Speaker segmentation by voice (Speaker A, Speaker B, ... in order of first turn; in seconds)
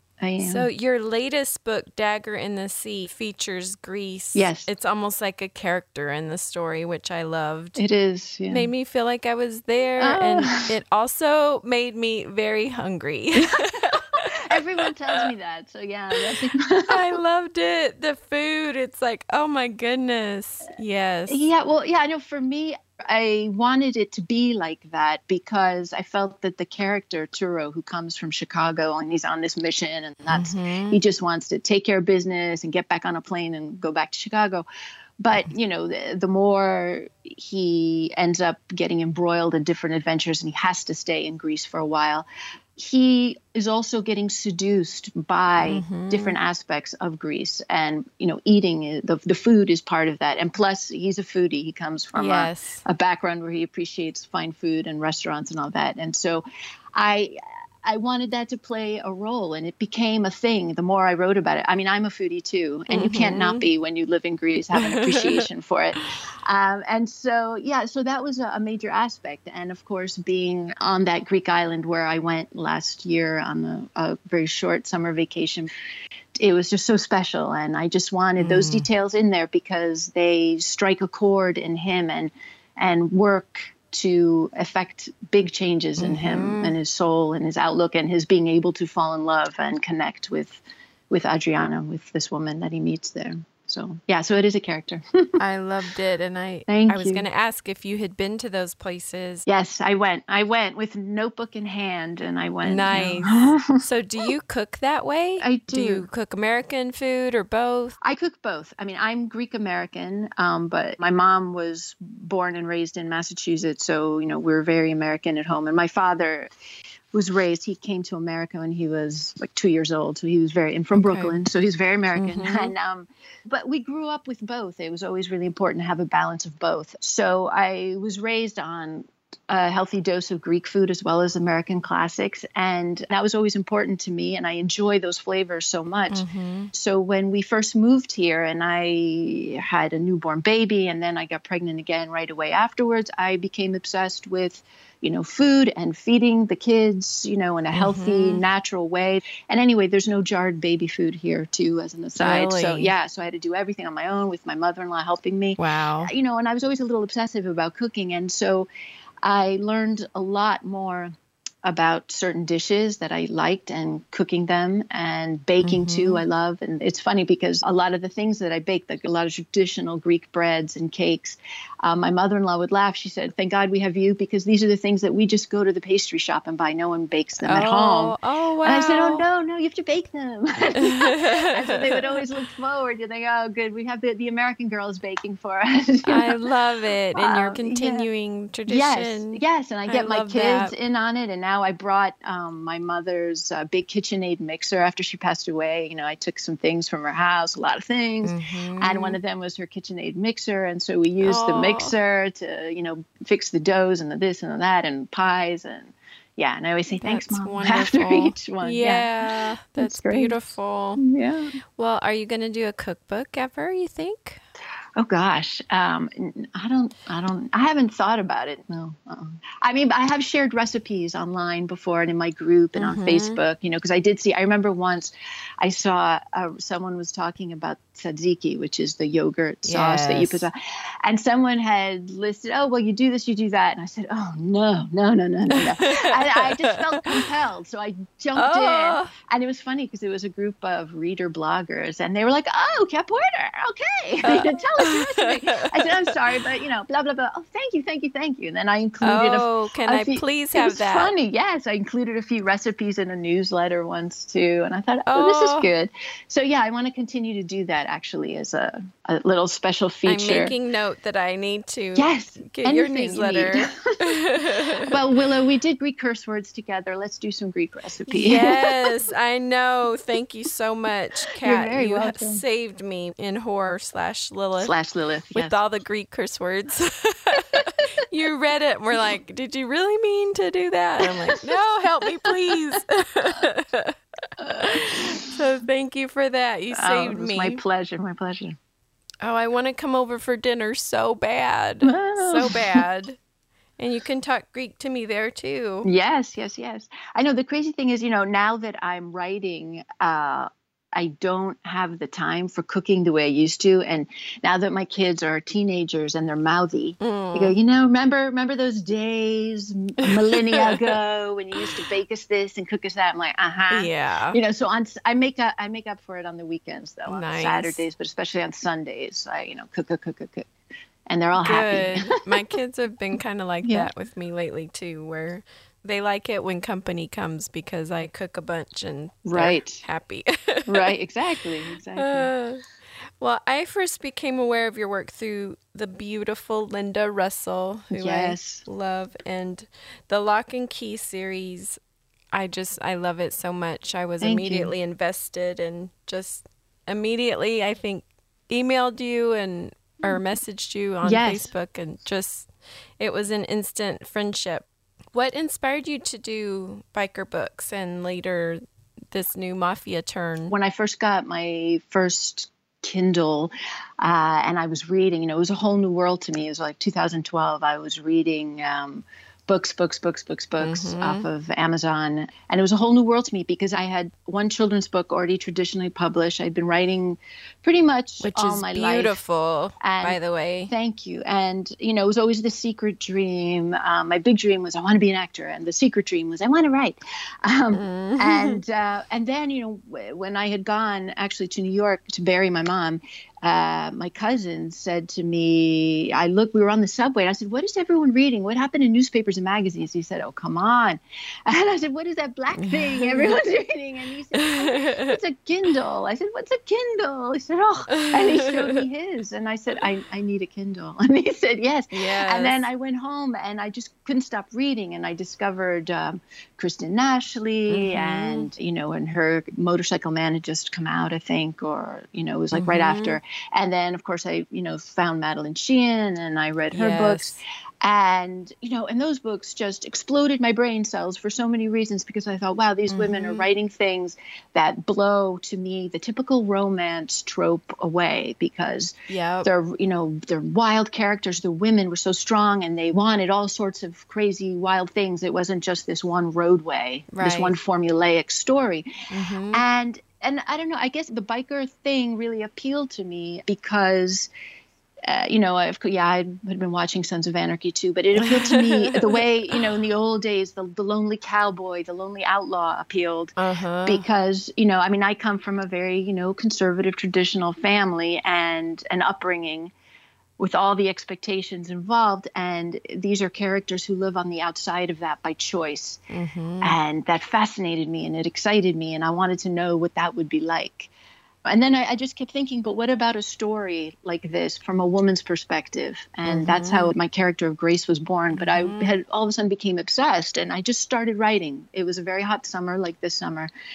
Speaker A: 0.2-0.7, 4.3-4.7, 7.8-8.7, 10.0-10.7, 14.5-17.2, 21.3-34.6, 35.2-75.7, 76.4-95.0, 96.7-97.2, 99.5-103.7, 105.4-106.1, 108.0-116.5, 117.1-158.7, 159.2-161.1, 161.6-186.4, 187.1-188.1, 188.7-210.4, 211.0-211.5, 215.0-260.6, 261.9-263.7, 264.8-268.8, 271.4-272.4, 274.6-275.6, 282.0-282.8, 284.4-285.2, 286.7-288.6, 291.8-292.8, 295.8-320.5, 321.1-322.1, 323.6-323.9, 329.3-329.9, 330.7-332.3, 337.9-338.6, 344.2-344.7, 351.0-351.5, 360.5-379.2, 379.8-448.9, 449.5-454.3, 455.1-463.3, 463.9-469.7, 470.4-476.0, 476.6-480.9, 481.5-493.5
Speaker B: 0.4-7.8, 8.5-14.3, 16.9-21.5, 30.3-31.0, 45.6-46.4, 52.1-52.8, 62.9-63.7, 64.8-65.4, 78.4-78.9, 86.0-86.8, 95.4-99.4, 102.6-108.0, 120.9-121.4, 122.1-122.7, 136.1-136.7, 147.7-148.4, 152.2-152.9, 155.6-156.1, 165.6-166.2, 177.4-179.2, 180.9-182.1, 186.1-190.7, 198.2-199.2, 201.2-201.9, 207.0-211.0, 211.8-214.4, 222.8-223.4, 229.6-230.5, 235.5-237.2, 238.3-239.1, 244.2-246.1, 249.0-251.1, 255.1-255.7, 260.1-264.9, 268.1-274.7, 275.3-283.9, 284.5-287.6, 289.2-293.2, 293.8-295.9, 307.0-307.6, 310.1-310.7, 313.7-314.4, 317.1-317.9, 321.4-330.9, 331.9-332.6, 333.2-341.8, 342.3-352.5, 353.0-358.6, 359.1-360.5, 370.6-371.3, 378.2-380.7, 387.7-388.6, 402.5-403.4, 404.4-405.1, 407.9-408.8, 411.9-412.7, 417.7-418.5, 422.5-423.2, 426.7-427.4, 432.9-433.5, 439.1-439.5, 447.1-447.6, 449.1-449.6, 458.2-459.2, 463.4-464.1, 476.1-476.8, 486.2-486.9, 488.3-489.0